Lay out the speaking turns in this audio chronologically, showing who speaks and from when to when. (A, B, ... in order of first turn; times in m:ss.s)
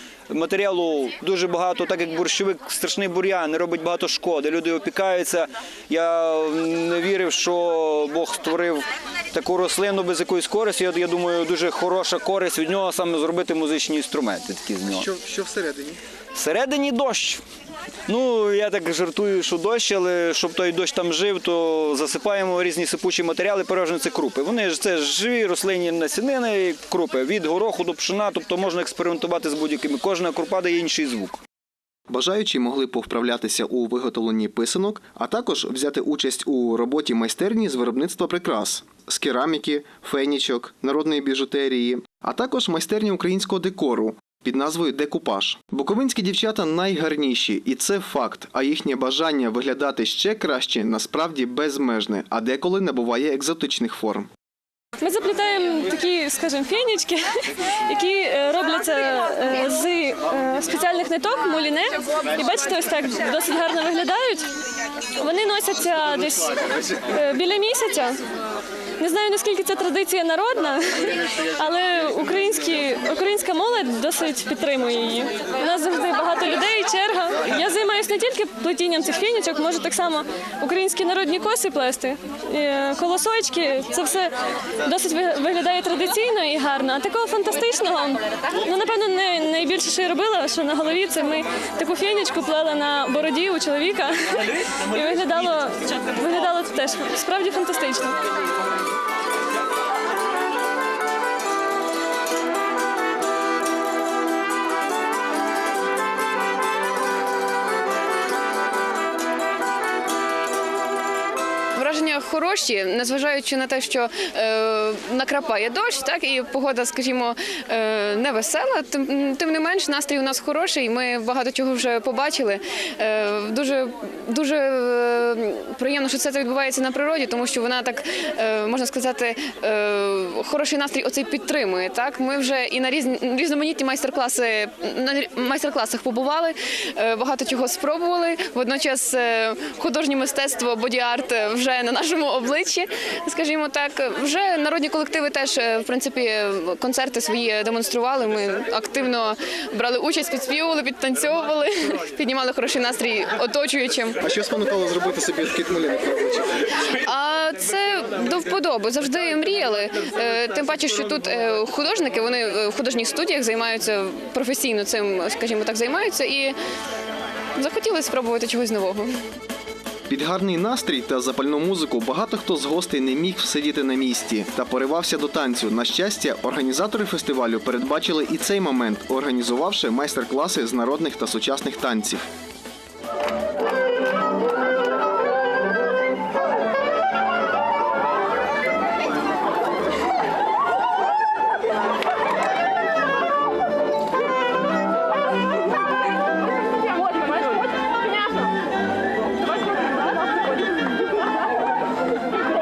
0:00.3-0:15.0 A
0:14.9-0:16.0 B
0:16.3-0:17.4 A
0:18.1-0:31.4 A
0:32.1-0:54.3 C
0:55.0-1:04.5 D
1:05.2-1:08.2 D
1:09.0-1:38.2 D
1:51.8-2:34.2 E
2:34.2-2:36.5 B
2:37.0-2:46.6 E
2:47.6-2:49.1 E
2:50.1-3:02.3 C